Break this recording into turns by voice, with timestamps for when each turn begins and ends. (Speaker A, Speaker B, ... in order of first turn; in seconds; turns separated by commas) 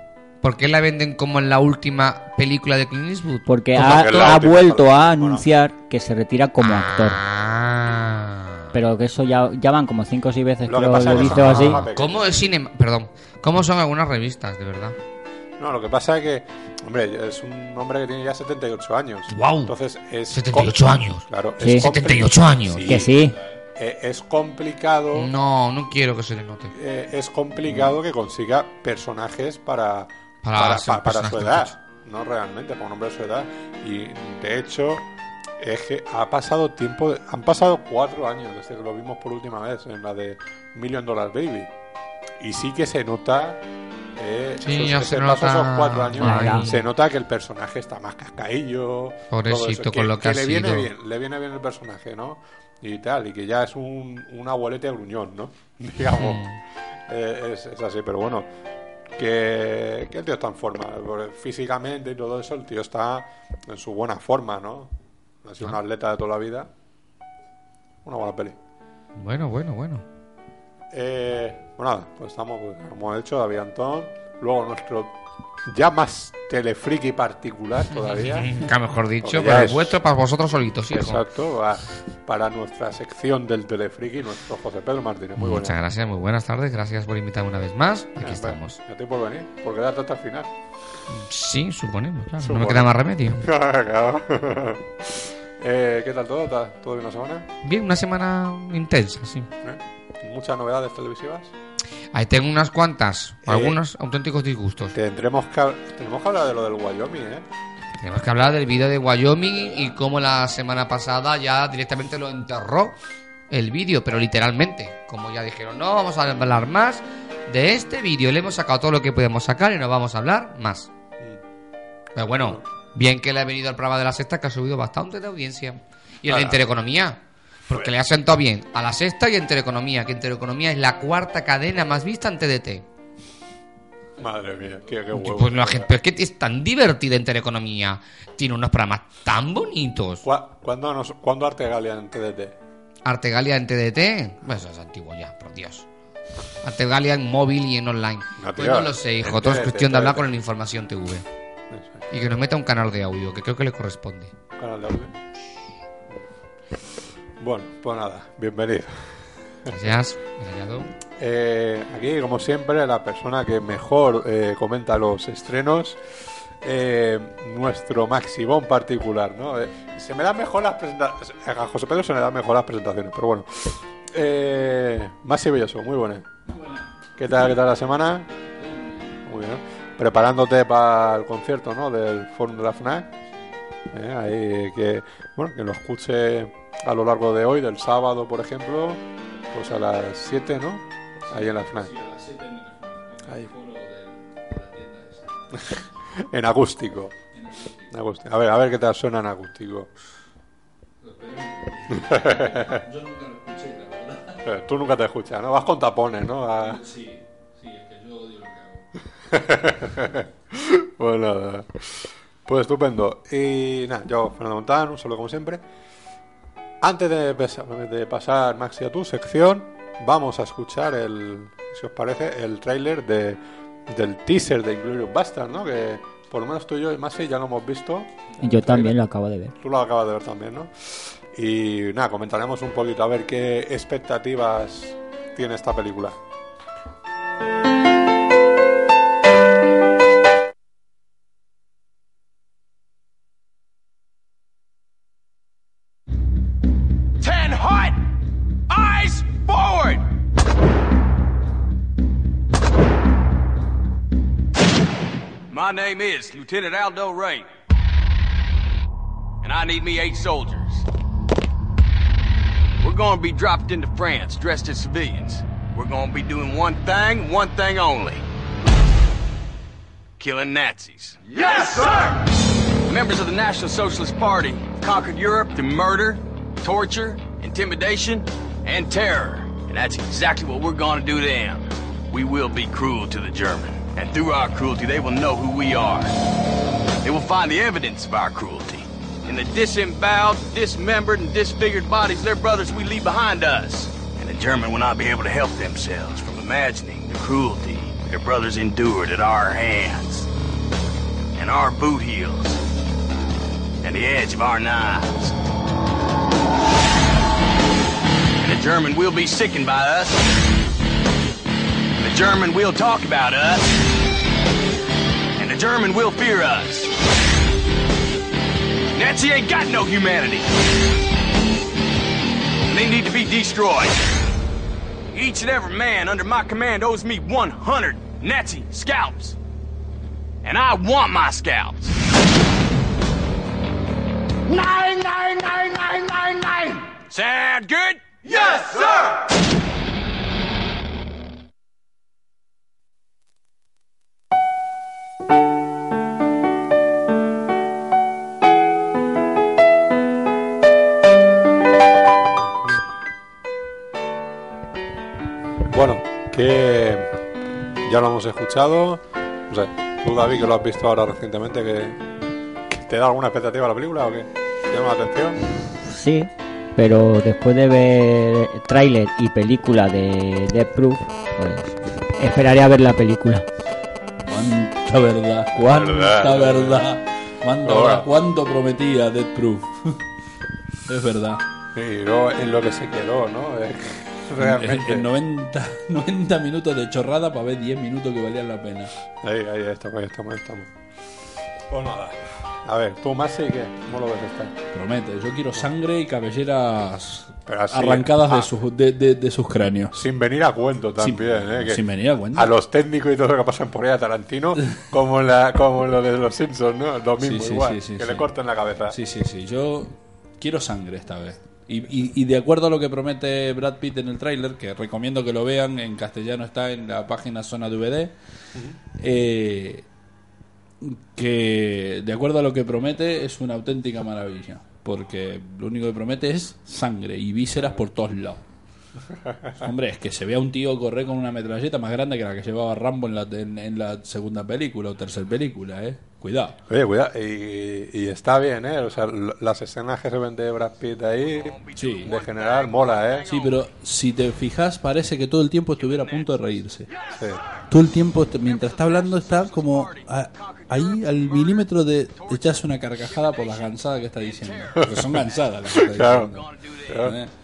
Speaker A: 0.4-4.3, Speaker B: 3.5-7.2, Speaker C: 3.8-5.5, Speaker A: 6.6-8.7, Speaker B: 8.7-11.8, Speaker C: 10.7-12.3, Speaker A: 11.1-15.0, Speaker C: 15.6-23.1, Speaker A: 19.3-19.7, Speaker A: 20.3-23.0, Speaker B: 21.6-21.9, Speaker B: 22.9-23.4, Speaker D: 23.1-23.6, Speaker C: 23.8-25.3, Speaker A: 25.1-26.7, Speaker C: 26.8-35.1, Speaker A: 30.4-31.7, Speaker C: 35.6-41.7, Speaker C: 42.4-43.6, Speaker C: 44.2-56.4, Speaker A: 44.6-46.8, Speaker B: 46.2-46.7, Speaker A: 49.3-50.9, Speaker A: 56.2-56.6, Speaker C: 57.1-58.5, Speaker C: 59.2-64.9, Speaker C: 65.4-66.7, Speaker C: 68.0-68.6, Speaker A: 69.2-70.0, Speaker C: 70.9-75.2, Speaker C: 75.7-78.5, Speaker A: 77.9-81.2, Speaker C: 79.2-80.0, Speaker C: 80.9-85.8, Speaker A: 85.4-88.8, Speaker C: 88.2-90.5, Speaker A: 91.1-93.5, Speaker C: 92.4-97.5, Speaker A: 97.6-99.5, Speaker C: 99.6-101.5, Speaker A: 102.1-105.0, Speaker C: 103.5-103.8, Speaker C: 104.9-107.5, Speaker A: 108.0-113.0, Speaker A: 113.5-120.9, Speaker A: 122.2-132.8, Speaker C: 126.3-126.6, Speaker C: 134.2-135.9, Speaker A: 135.1-140.2, Speaker C: 140.2-142.6, Speaker A: 143.1-145.9, Speaker A: 146.6-151.2, Speaker C: 148.4-150.3, Speaker C: 151.7-152.0, Speaker A: 152.1-154.3, Speaker C: 154.6-155.1, Speaker C: 157.4-159.8, Speaker A: 159.7-160.9, Speaker C: 161.2-166.0, Speaker C: 166.6-176.3, Speaker D: 176.5-176.9, Speaker C: 177.2-178.3, Speaker D: 178.6-179.2, Speaker C: 179.3-183.1, Speaker C: 183.9-191.9, Speaker D: 191.3-195.3, Speaker C: 195.7-197.2, Speaker D: 197.3-197.9, Speaker C: 197.9-199.9, Speaker D: 201.0-204.4, Speaker C: 202.0-202.8, Speaker C: 204.4-206.8, Speaker D: 206.6-208.8, Speaker C: 209.3-215.6, Speaker C: 216.8-229.0, Speaker B: 228.4-229.5, Speaker C: 229.6-236.2, Speaker E: 247.2-248.0, Speaker E: 248.7-250.0, Speaker E: 255.5-257.5, Speaker E: 259.4-260.9, Speaker E: 262.8-268.2, Speaker E: 270.2-272.2, Speaker E: 272.9-286.1, Speaker E: 287.0-300.3, Speaker E: 301.4-302.6, Speaker E: 303.8-305.4, Speaker E: 308.4-310.3, Speaker E: 312.0-313.8, Speaker E: 315.4-316.9, Speaker E: 318.9-320.5, Speaker E: 322.7-324.0, Speaker E: 325.1-329.4, Speaker E: 330.4-332.0, Speaker E: 334.5-339.2, Speaker C: 355.7-357.1, Speaker C: 357.8-362.0, Speaker C: 362.7-365.4, Speaker B: 365.8-373.5, Speaker D: 374.3-380.0, Speaker C: 375.6-376.9, Speaker C: 377.6-378.1, Speaker D: 380.9-381.4, Speaker C: 381.7-385.1, Speaker D: 384.4-388.9, Speaker C: 389.2-390.7, Speaker C: 391.7-394.6, Speaker D: 394.7-400.0, Speaker C: 397.5-398.5, Speaker C: 399.9-409.0, Speaker D: 401.0-402.5, Speaker D: 407.2-408.3, Speaker D: 408.9-418.1, Speaker D: 419.0-419.9, Speaker D: 420.8-428.4, Speaker D: 429.6-436.6, Speaker C: 436.7-443.3, Speaker E: 441.3-443.7, Speaker D: 441.8-442.1, Speaker D: 443.3-446.9, Speaker E: 445.8-447.2, Speaker D: 447.7-456.4, Speaker E: 448.3-455.6, Speaker C: 454.8-455.1, Speaker C: 455.7-456.3, Speaker E: 456.3-457.2, Speaker C: 456.9-457.2, Speaker D: 457.0-457.3